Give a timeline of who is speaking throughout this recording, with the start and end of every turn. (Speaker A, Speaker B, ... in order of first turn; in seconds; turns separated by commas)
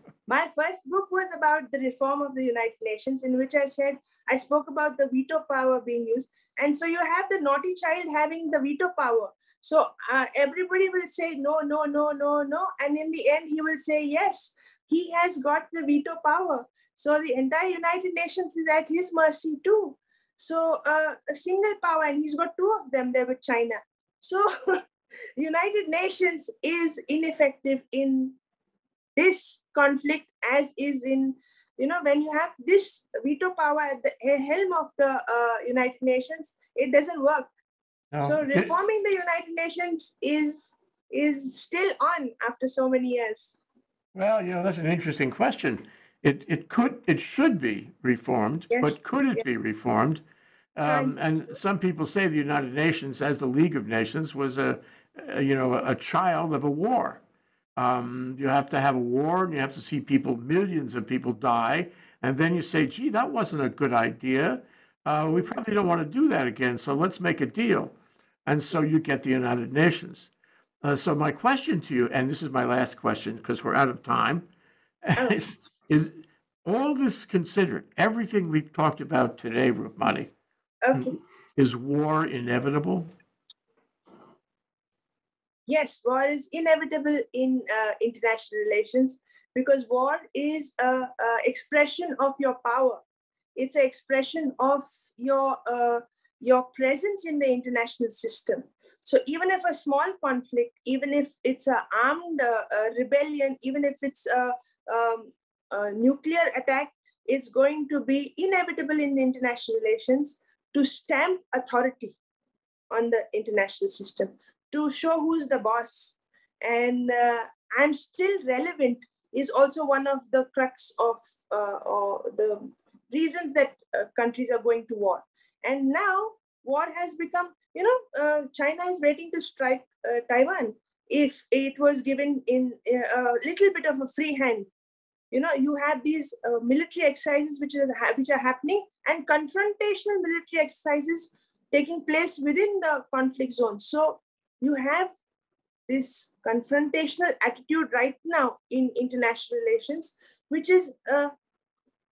Speaker A: 0.3-24.8, Speaker A: 25.4-28.4, Speaker A: 29.2-37.5, Speaker B: 38.1-38.7, Speaker A: 38.2-43.6, Speaker B: 44.1-50.2, Speaker A: 48.7-49.4, Speaker B: 50.8-57.2, Speaker A: 50.9-51.2, Speaker B: 57.8-67.9, Speaker B: 68.5-70.3, Speaker B: 70.8-74.5, Speaker B: 75.0-80.3, Speaker A: 80.8-81.2, Speaker B: 80.9-83.1, Speaker A: 85.7-93.0, Speaker A: 93.6-112.2, Speaker A: 112.9-134.7, Speaker A: 135.3-145.1, Speaker A: 145.9-151.3